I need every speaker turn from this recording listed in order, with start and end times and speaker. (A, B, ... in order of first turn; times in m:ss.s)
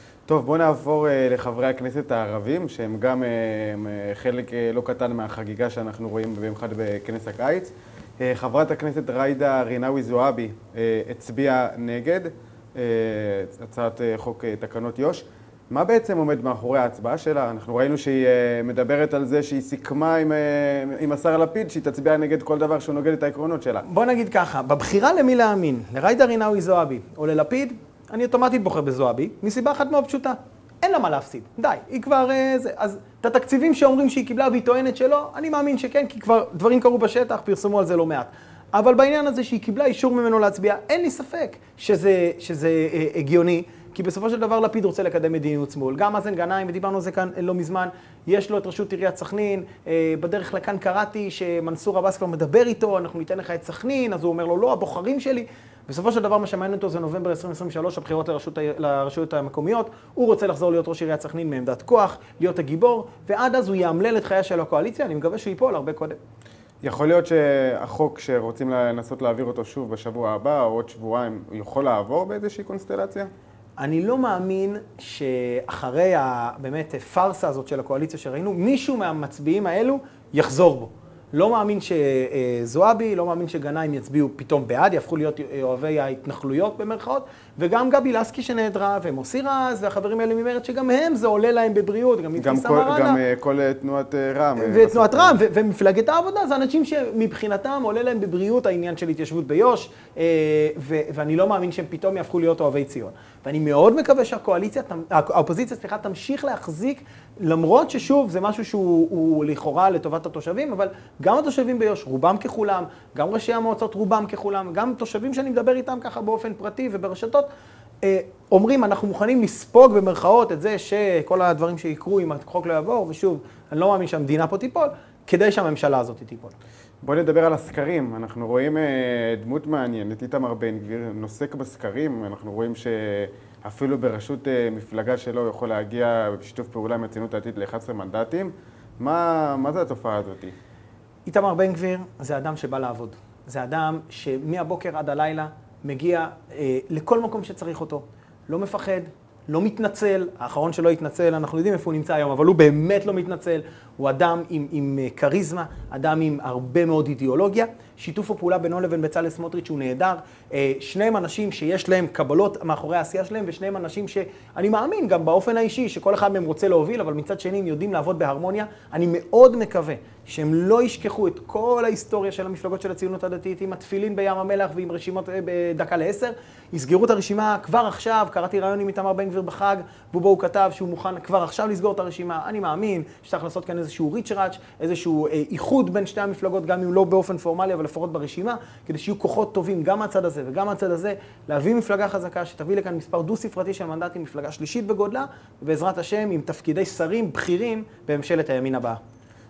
0:00.3-0:23.8 A
0:23.8-1:06.2 B
1:06.8-1:13.3 A
1:13.8-1:33.2 B
1:32.4-1:35.4 A
1:34.6-1:57.5 B
1:58.0-2:06.6 B
2:07.0-2:20.5 A
2:21.3-3:19.0 B